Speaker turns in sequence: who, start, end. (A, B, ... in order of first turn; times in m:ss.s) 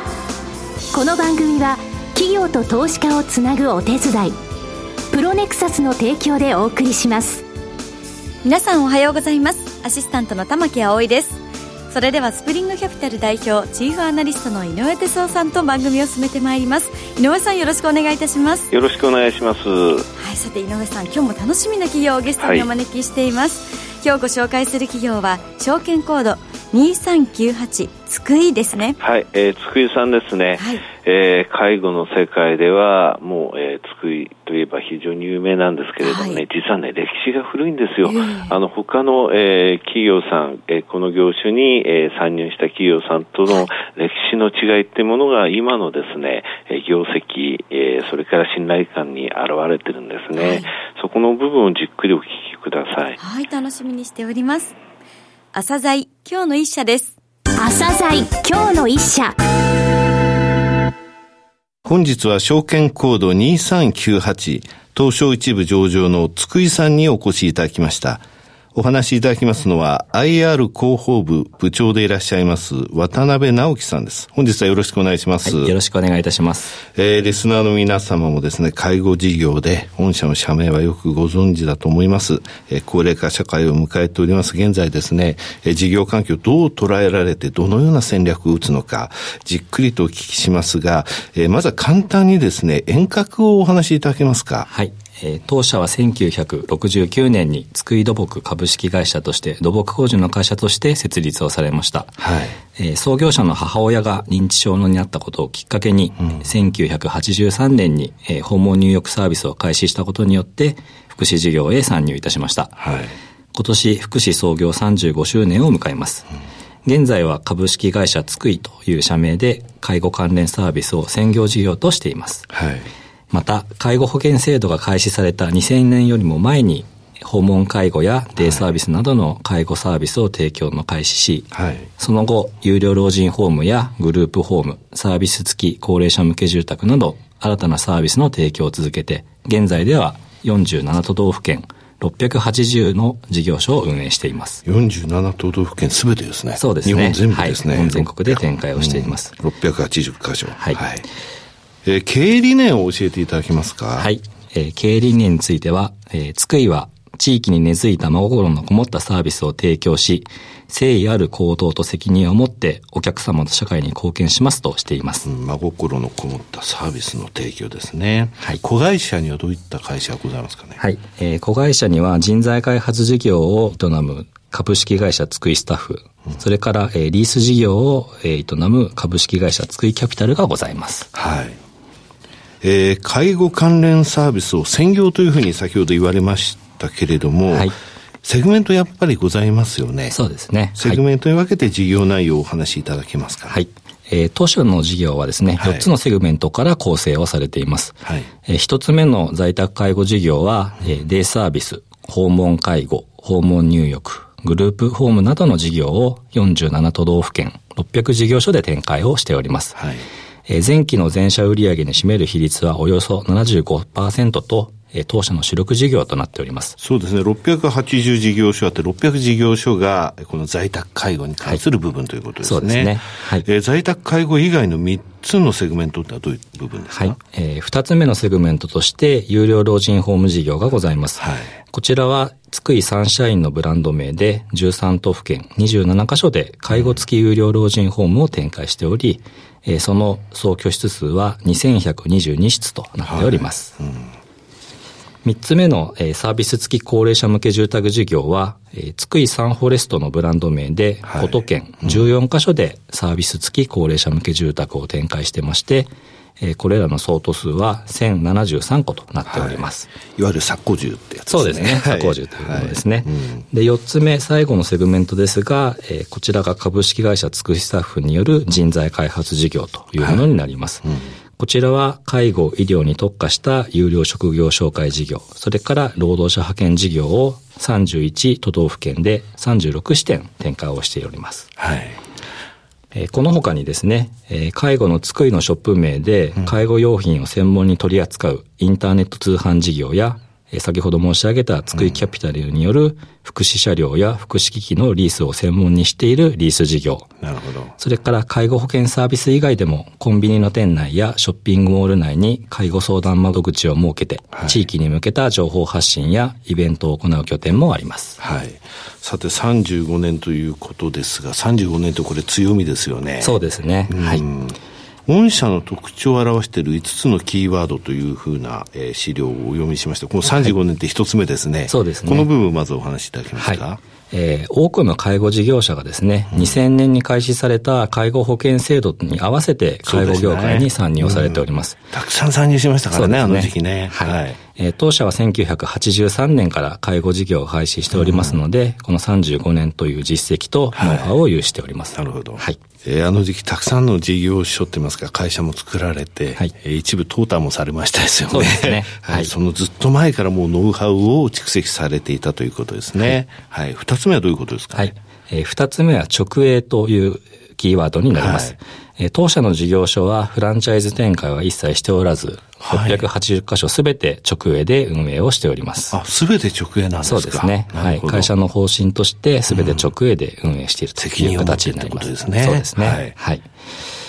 0:00.9-0:04.4 A
0:05.1-0:07.4 A
0:08.4-0:18.7 B
0:18.7-0:20.0 C
0:20.2-0:29.0 B
0:22.4-0:22.7 C
0:29.0-0:53.2 C
0:30.6-0:30.8 B
0:36.0-0:36.4 B
0:38.0-0:38.5 B
0:50.3-0:50.7 B
0:53.2-0:54.7 B
0:55.5-0:57.1 B
0:57.6-0:59.4 A
1:01.8-1:08.2 D
1:08.7-1:15.7 D
1:15.4-1:16.8 E
1:17.0-1:34.7 D
1:34.6-1:42.2 E
1:42.2-1:42.6 D
1:42.7-1:52.8 E
1:52.8-1:53.1 D
1:53.5-1:56.2 E
1:56.8-2:02.5 E
2:02.5-2:02.9 D
2:03.3-2:24.6 E
2:08.4-2:08.6 D
2:11.5-2:11.8 D
2:24.6-2:31.0 D
2:26.6-2:29.3 E
2:30.6-2:30.8 E
2:31.8-2:34.1 D
2:34.0-2:45.3 E
2:45.2-2:50.8 D
2:50.8-3:01.1 E
3:01.1-3:01.6 D
3:02.6-3:07.7 D
3:08.2-3:10.2 D
3:10.1-3:11.0 E
3:10.8-3:13.6 D
3:13.5-3:29.8 E
3:15.6-3:15.9 D
3:29.8-3:30.0 D
3:30.5-3:36.8 E
3:36.8-3:47.2 D
3:42.4-3:43.4 E
3:46.9-4:03.8 E
3:51.2-3:51.5 D
4:03.1-4:04.0 D
4:05.2-4:19.9 E
4:11.1-4:12.0 D
4:19.3-4:23.4 D
4:21.3-4:30.8 E
4:31.4-4:41.5 E
4:41.6-4:42.0 D
4:42.9-4:57.1 E
4:57.2-4:57.7 D
4:57.8-5:08.2 E
5:04.3-5:04.6 D
5:08.2-5:23.8 D
5:13.2-5:14.2 E
5:20.2-5:20.5 E
5:21.7-5:22.3 E
5:23.4-5:31.8 E
5:26.3-5:26.6 D
5:29.8-5:34.4 D
5:32.9-5:42.6 E
5:37.9-5:38.4 D
5:40.7-5:41.1 D
5:41.9-5:54.9 D
5:48.3-5:49.3 E
5:54.7-6:05.9 E
5:58.1-5:58.5 D
6:02.6-6:03.1 D
6:05.9-6:08.3 D
6:07.0-6:13.4 E
6:09.5-6:09.9 D
6:11.0-6:13.1 D